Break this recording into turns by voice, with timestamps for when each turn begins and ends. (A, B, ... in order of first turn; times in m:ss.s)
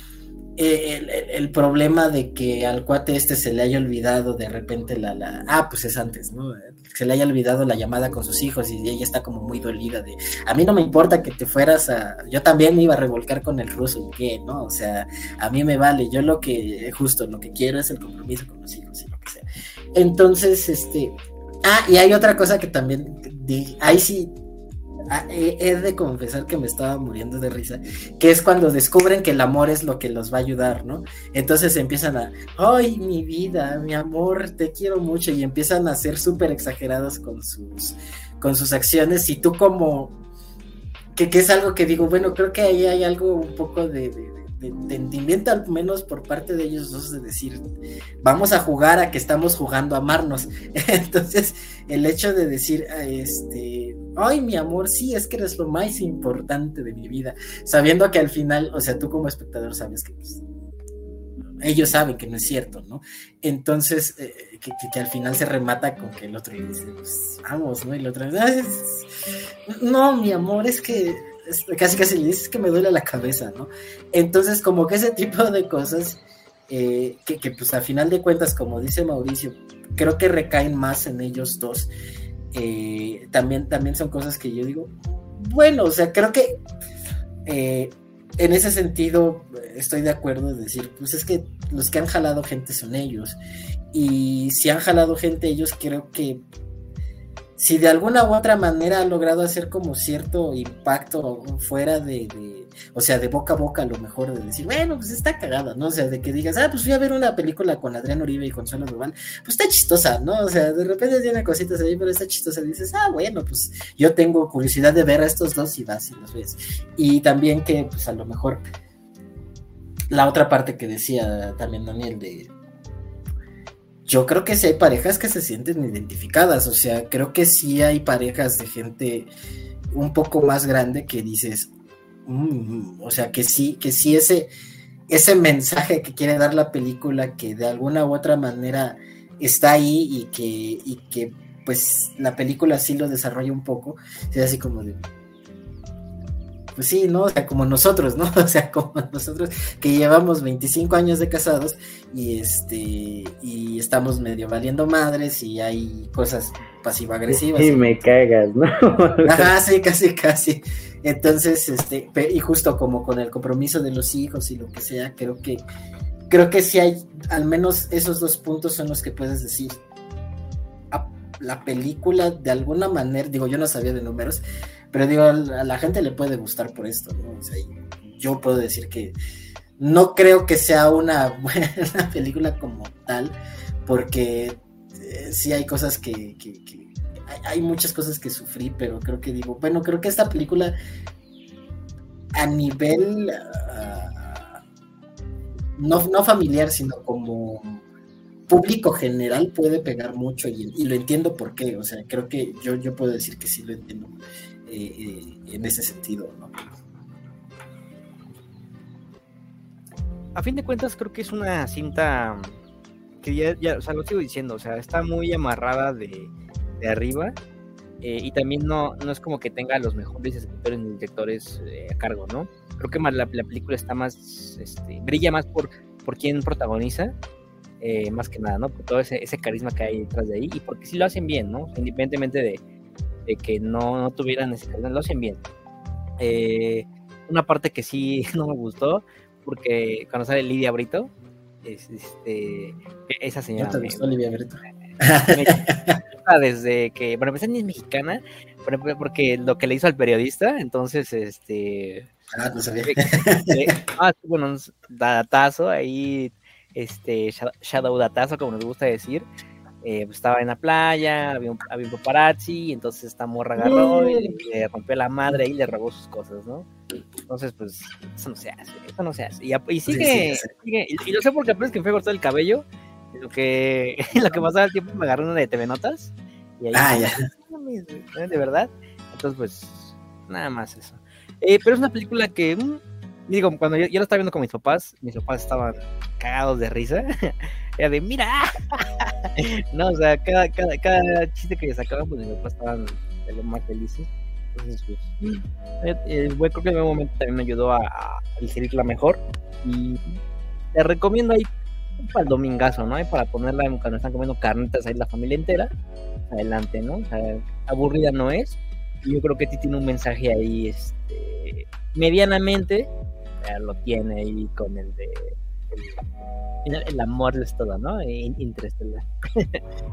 0:00.6-0:19.4 A
0:19.9-0:24.3 A
0:25.1-0:40.2 A
0:41.1-0:47.6 A
0:48.2-1:00.4 A
1:01.6-1:09.1 A
1:09.7-1:21.9 A
1:22.5-1:26.6 A
1:27.4-1:33.4 A
1:33.9-1:36.4 A
1:37.6-1:58.6 A
2:00.1-2:02.5 A
2:04.0-2:09.3 A
2:09.9-2:11.7 A
2:12.3-2:14.5 A
2:15.1-2:25.0 A
2:26.7-2:38.1 A
2:37.3-2:39.5 B
2:39.2-2:45.6 A
2:46.3-2:49.8 A
2:50.9-2:59.1 A
2:59.8-3:10.7 A
3:12.4-3:14.6 A
3:15.8-3:17.8 A
3:18.5-3:26.5 A
3:30.3-3:32.6 C
3:33.2-3:37.4 C
3:38.0-3:47.1 C
3:47.8-3:52.6 C
3:53.3-3:55.4 C
3:56.2-4:01.1 C
4:01.6-4:04.1 C
4:03.6-4:06.0 A
4:05.3-4:05.6 C
4:06.2-4:12.1 C
4:12.3-4:13.7 A
4:12.8-4:19.3 C
4:19.8-4:26.7 C
4:23.6-4:24.3 A
4:27.3-5:00.2 C
4:29.9-4:30.5 A
4:36.7-4:37.2 A
5:00.7-5:01.5 C
5:02.0-5:05.7 C
5:06.3-5:12.9 C
5:13.4-5:16.1 C
5:16.6-5:19.6 C